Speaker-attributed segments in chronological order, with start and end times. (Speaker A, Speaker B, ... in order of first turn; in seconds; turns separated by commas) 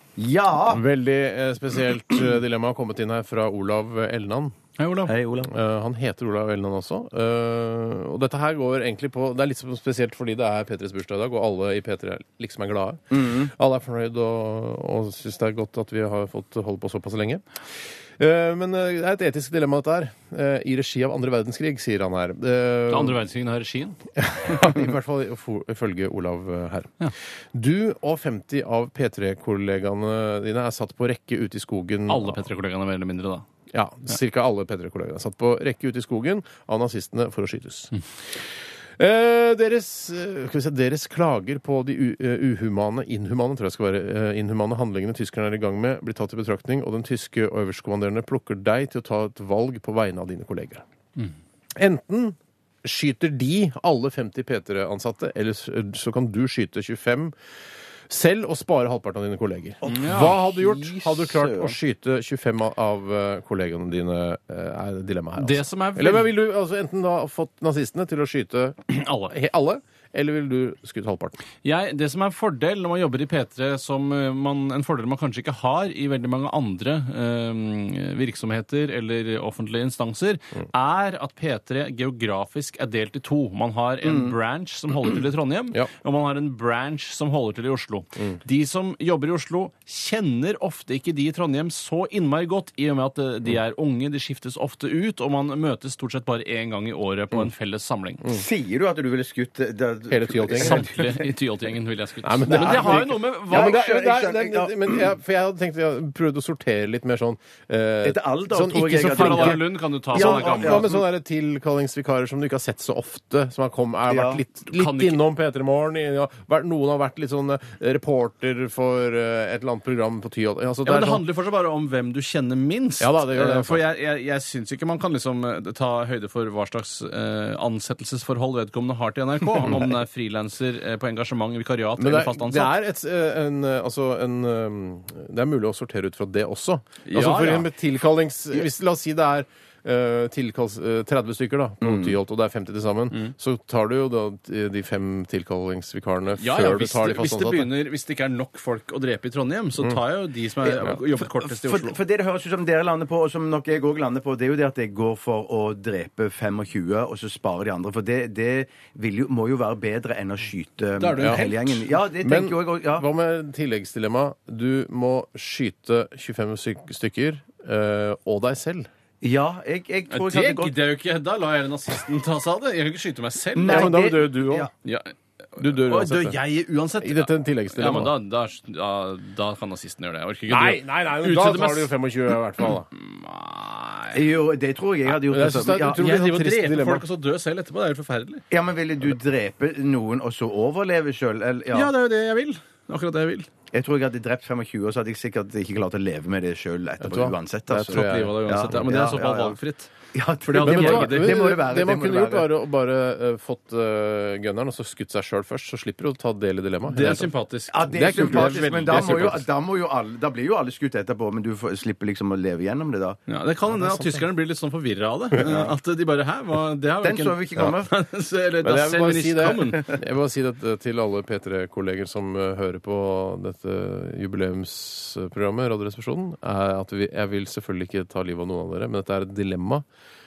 Speaker A: 0.2-0.8, Speaker B: 0.7-4.5, Speaker C: 4.8-5.1, Speaker A: 5.1-5.5, Speaker B: 5.4-23.2, Speaker A: 13.1-13.5, Speaker C: 22.9-24.0, Speaker B: 24.2-32.4, Speaker C: 32.1-33.5, Speaker B: 33.7-50.8, Speaker B: 51.8-57.4, Speaker B: 58.1-71.4, Speaker A: 59.8-61.8, Speaker C: 59.9-60.4, Speaker C: 65.4-66.3, Speaker C: 69.0-69.3, Speaker C: 71.6-98.2, Speaker A: 84.0-84.3, Speaker A: 98.3-101.3, Speaker B: 100.1-100.9, Speaker C: 100.5-103.8, Speaker B: 102.2-121.2, Speaker A: 102.5-105.1, Speaker A: 108.0-111.0, Speaker C: 109.0-110.9, Speaker A: 114.1-114.4, Speaker C: 114.7-115.2, Speaker C: 120.8-132.7, Speaker B: 123.0-123.8, Speaker B: 132.0-147.7, Speaker C: 137.1-137.7, Speaker A: 141.8-142.2, Speaker C: 146.4-152.0, Speaker A: 150.7-163.1, Speaker C: 161.0-161.9, Speaker B: 162.2-168.9, Speaker A: 169.2-170.8, Speaker C: 170.1-174.0, Speaker A: 173.6-174.7, Speaker B: 173.7-174.7, Speaker C: 174.8-182.0, Speaker B: 175.6-176.4, Speaker B: 177.0-178.2, Speaker B: 180.5-182.9, Speaker C: 182.9-184.2, Speaker A: 184.1-186.1, Speaker B: 185.1-187.1, Speaker C: 185.9-188.4, Speaker A: 188.5-191.9, Speaker C: 191.7-193.5, Speaker A: 193.7-199.6, Speaker B: 197.0-199.1, Speaker C: 197.9-199.9, Speaker A: 200.1-202.5, Speaker C: 200.4-201.4, Speaker B: 200.6-207.3, Speaker C: 206.9-209.4, Speaker A: 207.7-213.2, Speaker B: 207.9-209.4, Speaker C: 213.3-219.9, Speaker B: 213.7-214.2, Speaker A: 215.4-215.8, Speaker A: 217.0-217.9, Speaker B: 218.6-229.9